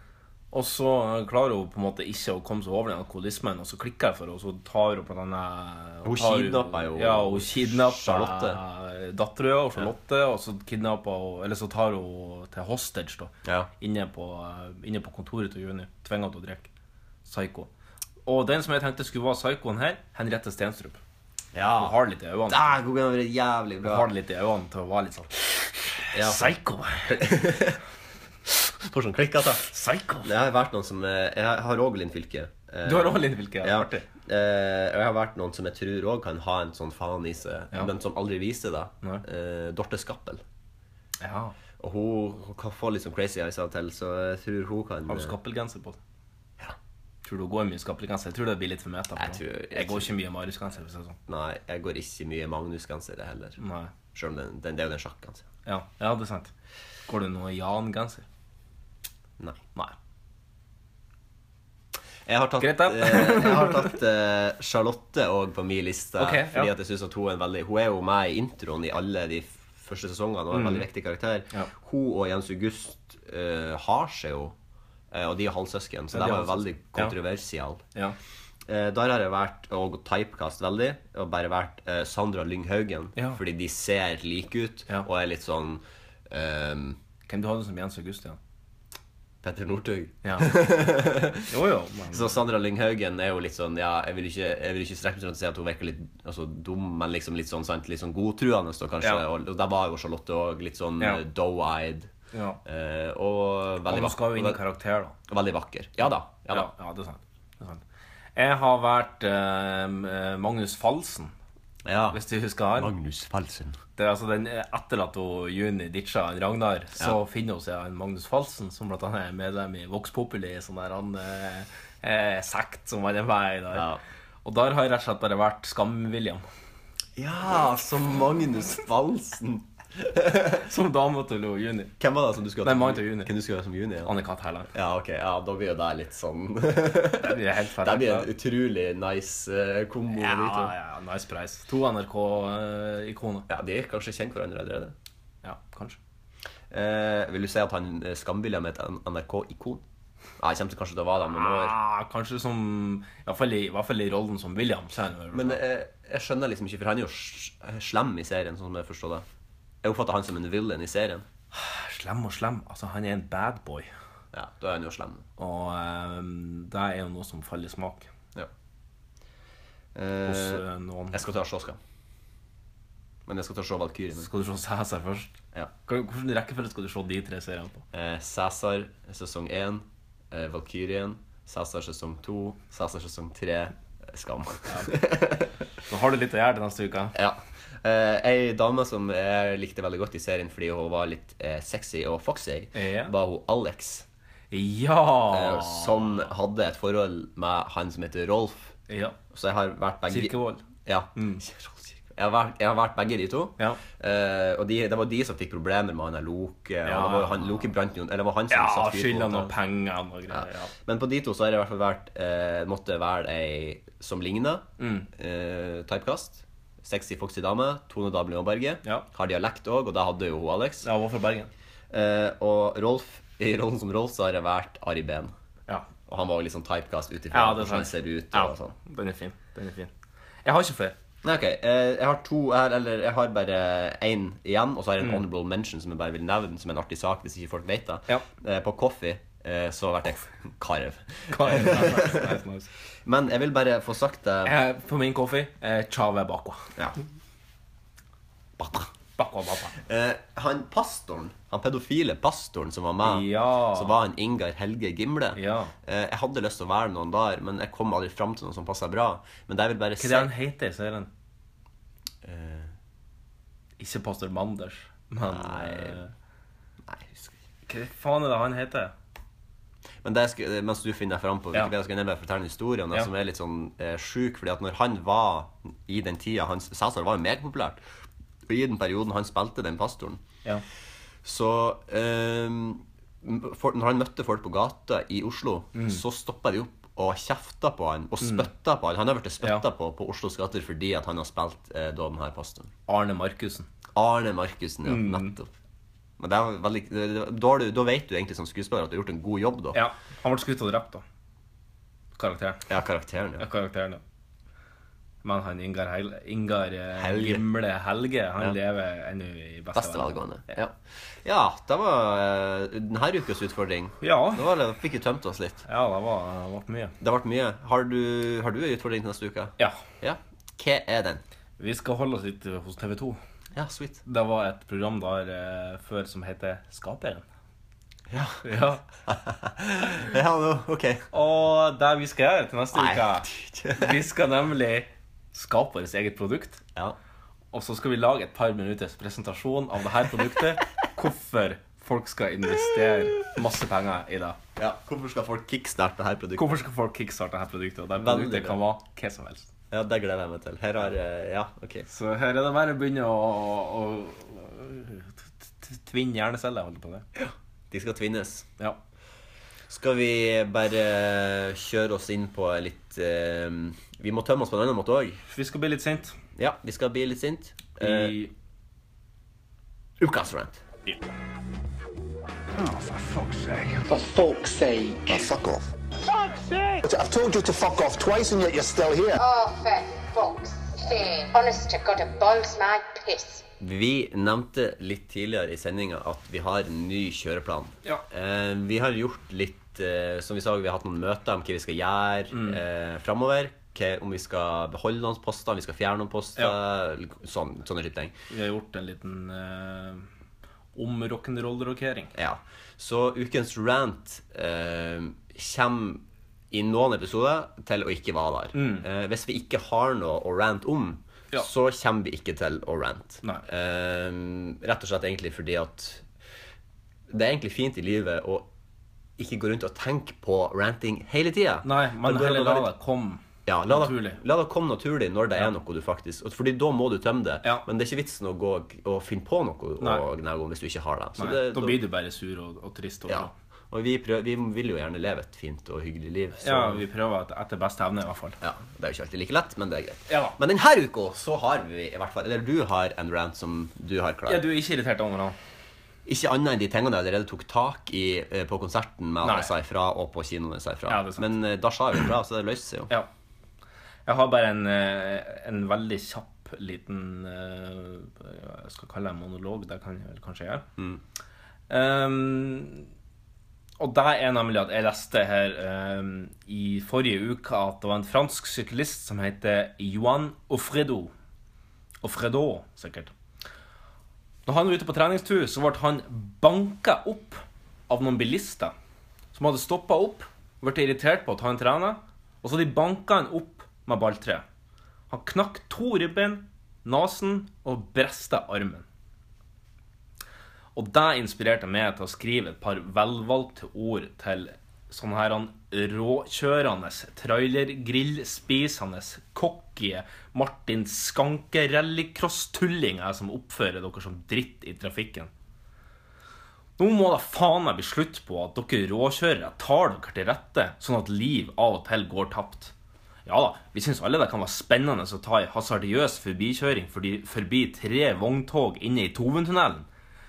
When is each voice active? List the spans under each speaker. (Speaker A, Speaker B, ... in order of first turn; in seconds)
Speaker A: 0.5-16.7, 17.2-17.7, 18.2-21.0, 21.8-22.7, 23.8-27.3, 29.7-30.3, 32.8-34.0, 41.2-41.5, 45.1-46.0, 47.2-51.2, 53.6-53.9, 55.6-56.5, 57.1-58.2, 62.6-63.9, 66.2-66.7, 70.5-70.9, 76.1-77.1, 83.2-83.4, 87.3-88.4, 90.2-90.6, 91.5-92.3, 102.3-102.6, 103.9-105.1, 106.5-107.8, 108.3-111.3, 112.1-112.9, 114.0-123.9, 124.4-126.4, 130.5-131.9, 132.6-133.3, 134.0-134.7, 137.2-138.3, 140.2-143.5, 145.4-146.0, 151.3-155.6, 161.5-163.9, 165.4-168.1, 170.2-171.2, 174.2-177.8, 184.7-185.0, 185.8-187.1, 192.7-193.1, 194.5-196.3, 198.9-199.2, 200.1-201.4, 206.8-207.6, 208.5-210.7, 214.8-215.1, 220.8-221.5, 227.3-229.9, 230.4-230.9, 241.3-242.7, 244.4-246.6, 249.2-249.7, 253.0-254.0, 255.3-255.7, 260.0-261.1, 263.8-266.1, 267.7-268.9, 285.7-286.0, 288.2-288.5, 292.9-293.7, 294.8-295.4, 299.7-301.0, 302.1-302.6, 303.4-304.0, 305.2-310.7, 314.0-314.4, 315.6-316.9, 321.6-323.2, 324.0-327.2, 328.4-328.8, 331.1-336.6, 337.5-344.4, 346.4-349.5, 351.9-357.1, 365.3-366.2, 367.8-368.3, 392.3-392.6, 398.3-400.1, 400.8-402.1, 408.5-408.9, 421.6-424.2, 431.2-433.3, 436.4-438.4, 440.1-440.4, 444.2-445.4, 449.2-449.5, 450.9-451.3, 454.1-460.6, 461.7-462.9, 463.8-471.1, 472.0-473.1, 474.4-478.7, 479.3-484.4, 485.1-488.8, 490.7-505.3, 506.8-512.7, 513.2-519.9
Speaker B: 6.0-8.6, 13.4-13.7, 21.5-21.9, 22.5-24.1, 26.1-26.5, 27.1-27.8, 28.5-29.7, 30.2-40.4, 41.8-45.3, 49.2-50.1, 51.3-53.6, 54.1-55.4, 62.2-74.5, 75.1-77.8, 78.7-87.0, 89.4-91.5, 92.1-102.1, 102.6-104.6, 105.3-106.7, 111.8-112.2, 112.7-113.8, 123.7-124.0, 127.2-130.6, 132.0-134.1, 134.7-140.7, 143.5-144.9, 146.7-149.8, 150.4-151.7, 155.3-159.2, 159.8-161.2, 164.3-165.2, 169.9-171.8, 173.2-174.3, 177.9-185.5, 187.1-194.0, 195.3-198.7, 199.3-209.5, 210.3-220.9, 221.9-225.3, 226.1-228.7, 231.2-242.3, 243.0-244.6, 248.6-248.9, 249.7-260.3, 262.2-262.7, 265.2-266.0, 266.9-267.4, 270.0-277.8, 278.5-280.2, 281.2-292.7, 293.9-295.5, 296.2-299.8, 302.7-303.4, 306.9-307.4, 309.7-310.7, 311.2-315.6, 317.0-321.2, 323.5-324.0, 328.1-328.4, 329.0-331.1, 332.7-334.0, 344.6-346.6, 347.9-348.6, 349.7-351.9, 357.1-358.5, 359.7-365.2, 366.4-368.2, 370.0-370.6, 383.6-398.1, 402.1-416.1, 417.1-418.5, 419.2-422.7, 423.4-431.8, 433.1-436.8, 438.4-444.4, 446.1-452.9
Speaker C: 373.9-375.7, 376.8-379.2
Speaker D: 379.2-383.4